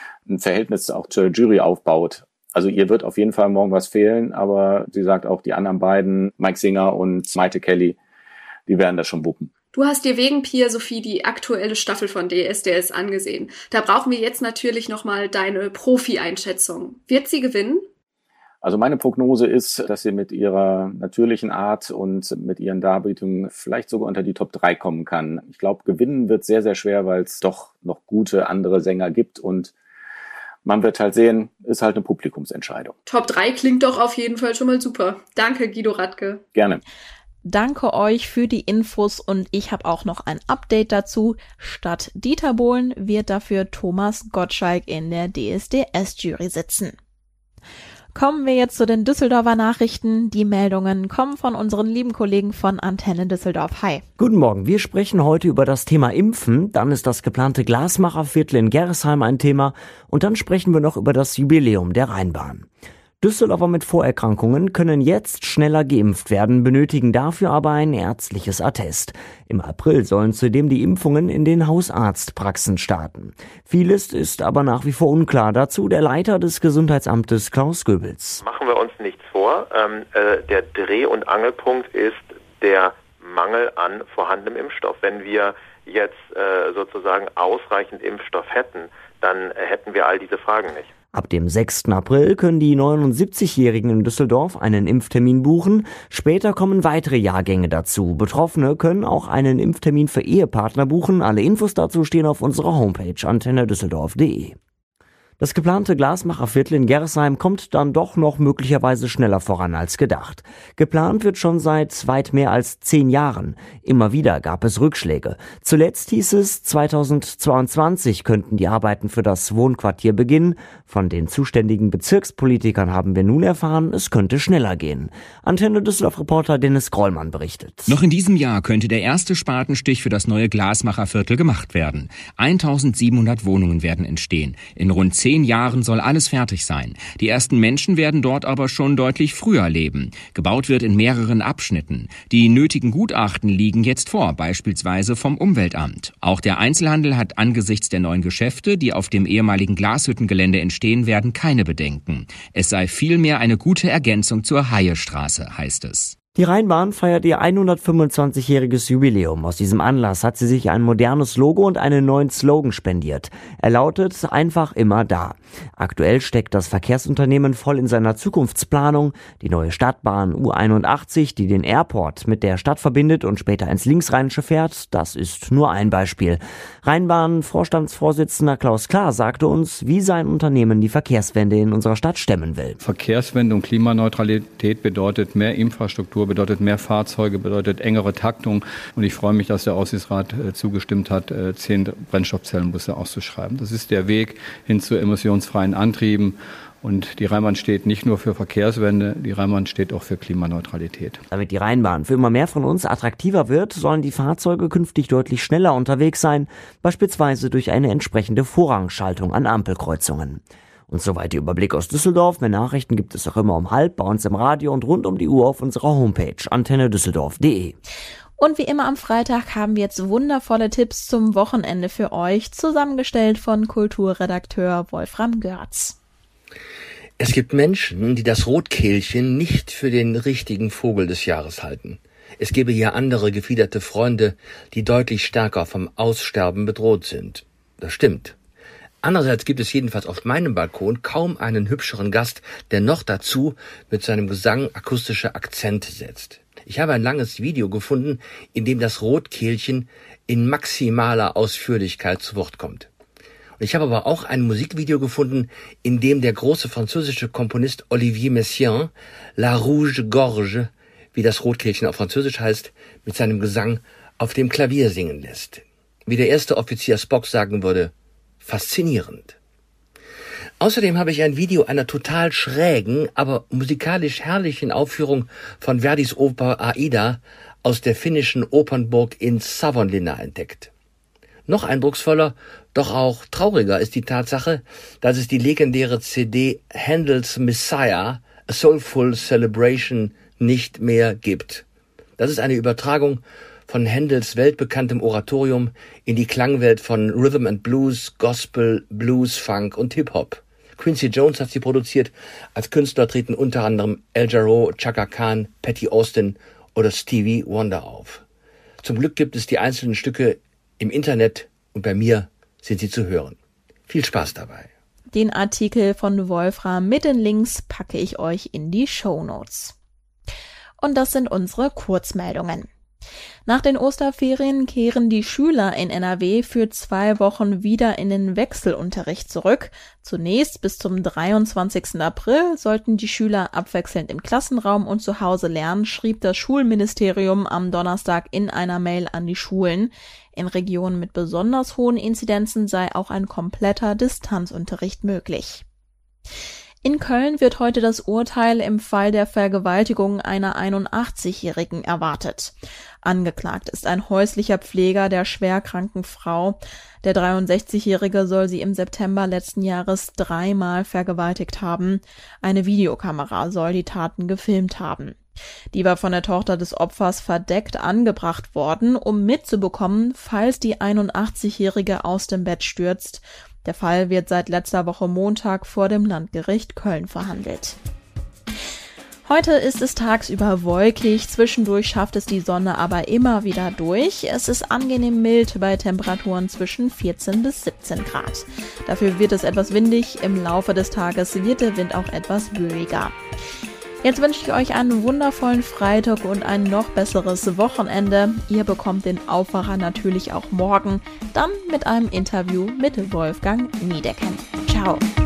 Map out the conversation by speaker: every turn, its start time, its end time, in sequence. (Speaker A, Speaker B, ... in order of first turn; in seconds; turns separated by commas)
Speaker A: 0.3-8.0, Speaker A: 8.7-9.5, Speaker B: 9.7-17.9, Speaker A: 18.6-29.7, Speaker A: 30.6-33.0, Speaker B: 33.0-36.4, Speaker A: 36.5-36.8, Speaker C: 37.4-46.9, Speaker C: 48.1-54.0, Speaker D: 54.2-62.7, Speaker D: 63.2-78.4, Speaker E: 78.4-90.9, Speaker D: 91.1-104.5, Speaker D: 105.4-128.0, Speaker F: 127.9-156.1, Speaker D: 156.3-182.8, Speaker G: 182.8-201.2, Speaker D: 201.3-217.8, Speaker C: 218.4-226.0, Speaker H: 227.2-238.3, Speaker H: 239.0-252.9, Speaker H: 253.6-267.9, Speaker H: 268.4-269.4, Speaker H: 270.6-280.7, Speaker H: 281.5-291.6, Speaker H: 292.2-308.2, Speaker H: 308.8-313.4, Speaker H: 313.9-314.7, Speaker C: 315.1-319.7, Speaker C: 320.8-322.7, Speaker C: 323.4-345.6, Speaker C: 346.8-365.2, Speaker C: 365.7-377.8, Speaker C: 379.2-393.1, Speaker C: 394.0-405.0